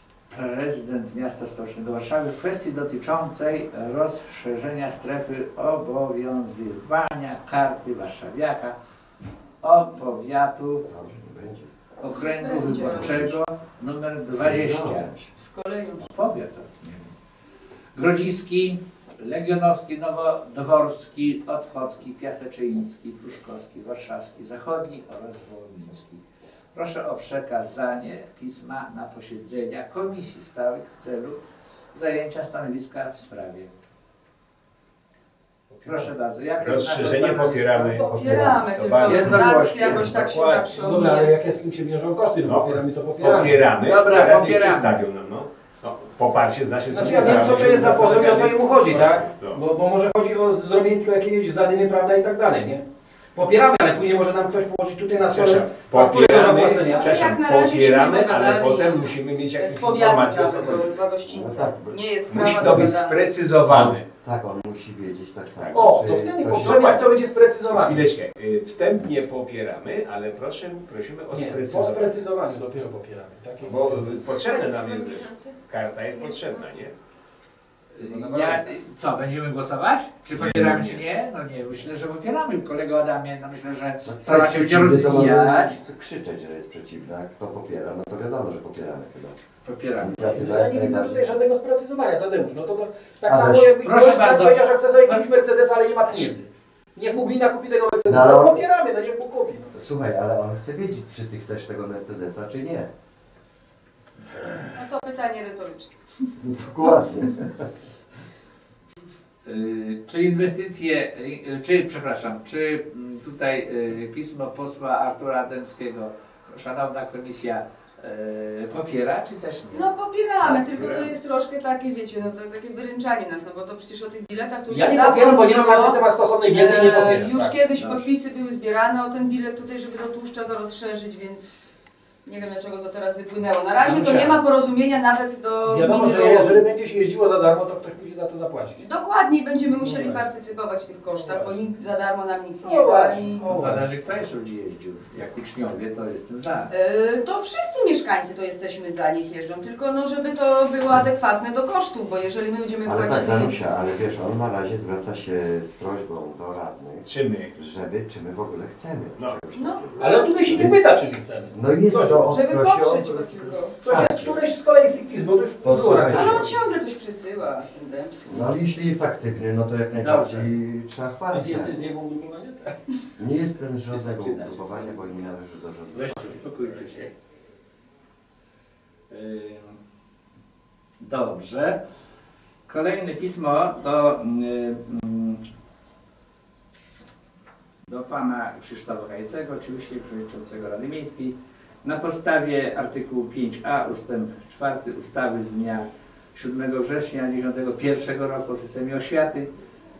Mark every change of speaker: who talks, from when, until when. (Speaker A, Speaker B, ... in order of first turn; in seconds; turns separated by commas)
Speaker A: 0.3-8.8, Speaker A: 9.6-10.8, Speaker B: 10.8-11.7, Speaker A: 12.0-15.1, Speaker C: 12.1-13.3, Speaker B: 12.9-13.3, Speaker B: 14.4-15.3, Speaker C: 15.3-16.1, Speaker A: 16.0-17.1, Speaker A: 17.9-26.2, Speaker A: 26.7-31.4, Speaker A: 31.9-33.7, Speaker D: 35.7-36.1, Speaker A: 35.8-38.0, Speaker D: 36.6-40.2, Speaker C: 37.8-41.3, Speaker B: 38.0-40.0, Speaker A: 39.0-40.6, Speaker E: 40.7-43.7, Speaker D: 42.4-49.6, Speaker A: 43.8-45.0, Speaker E: 46.9-52.8, Speaker E: 53.3-57.1, Speaker D: 55.3-60.9, Speaker C: 56.8-63.3, Speaker B: 61.2-62.0, Speaker D: 62.3-64.1, Speaker B: 62.5-62.9, Speaker B: 63.7-66.8, Speaker D: 65.6-65.9, Speaker E: 65.7-68.1, Speaker D: 66.5-67.1, Speaker D: 67.7-72.2, Speaker E: 71.3-74.1, Speaker D: 73.6-76.9, Speaker C: 74.3-75.5, Speaker C: 76.2-76.5, Speaker A: 77.9-85.8, Speaker D: 78.0-78.6, Speaker D: 80.4-81.0, Speaker B: 84.0-89.4, Speaker A: 89.6-90.2, Speaker B: 90.0-91.3, Speaker E: 90.2-99.7, Speaker B: 93.3-93.7, Speaker A: 93.8-95.2, Speaker B: 98.1-98.6, Speaker B: 99.7-102.9, Speaker C: 104.7-105.9, Speaker B: 106.4-107.7, Speaker A: 109.4-119.9, Speaker C: 119.7-131.7, Speaker D: 120.4-121.1, Speaker E: 124.7-128.0, Speaker C: 132.2-136.6, Speaker E: 133.8-134.4, Speaker E: 135.7-138.8, Speaker C: 138.8-143.6, Speaker E: 139.8-140.2, Speaker E: 141.2-141.6, Speaker E: 142.6-143.8, Speaker A: 142.6-146.7, Speaker C: 146.7-153.6, Speaker B: 152.8-160.8, Speaker D: 157.1-157.6, Speaker C: 159.5-160.7, Speaker E: 160.0-162.3, Speaker B: 161.5-164.4, Speaker C: 162.3-163.9, Speaker E: 163.8-166.5, Speaker B: 165.6-166.6, Speaker C: 166.1-168.7, Speaker B: 168.3-171.8, Speaker A: 169.9-170.5, Speaker E: 171.3-172.8, Speaker B: 173.2-176.7, Speaker E: 174.1-174.9, Speaker A: 175.9-177.1, Speaker A: 179.1-179.8, Speaker A: 181.0-181.8, Speaker A: 182.7-185.4, Speaker A: 187.9-199.5